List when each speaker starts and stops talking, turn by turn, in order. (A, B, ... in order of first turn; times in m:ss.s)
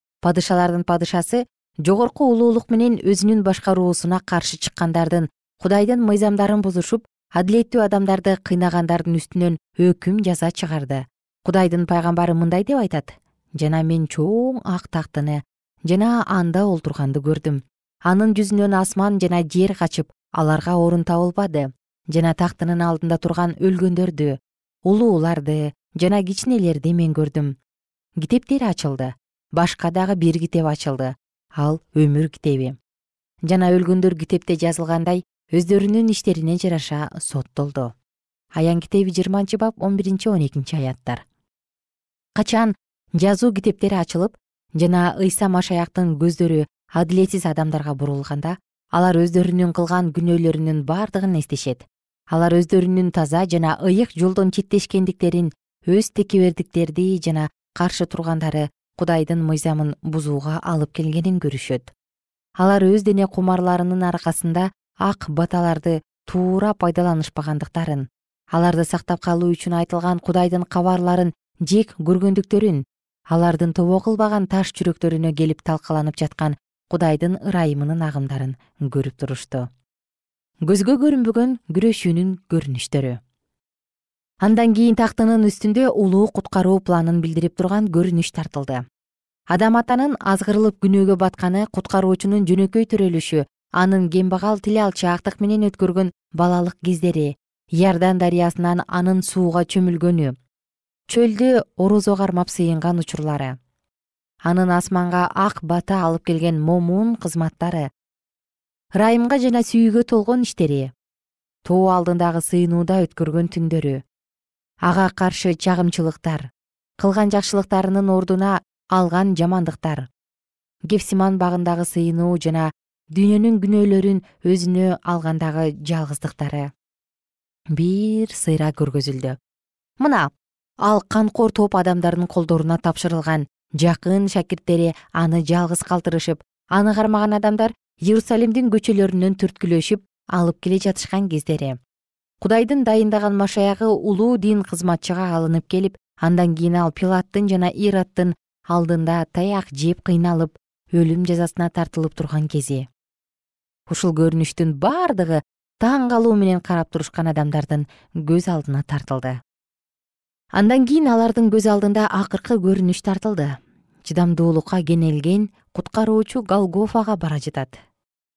0:00.2-0:27.6 A
0:28.2-0:32.8 A
0:33.4-0:37.9 A
0:38.6-0:41.2 A
0:42.4-1:01.9 A
1:02.6-1:19.7 A
1:20.6-1:23.2 A
1:24.4-1:28.8 A
1:29.5-1:40.4 A
1:41.1-1:43.6 A
1:44.4-1:47.9 A
1:48.9-1:50.9 A
1:51.6-1:54.0 A
1:54.8-1:56.5 A
1:57.0-2:00.1 A
2:00.9-2:06.7 A
2:07.7-2:09.4 A
2:10.0-2:10.3 A
2:10.8-2:21.8 A
2:22.4-2:32.9 A
2:33.9-2:39.4 A
2:40.5-2:47.8 A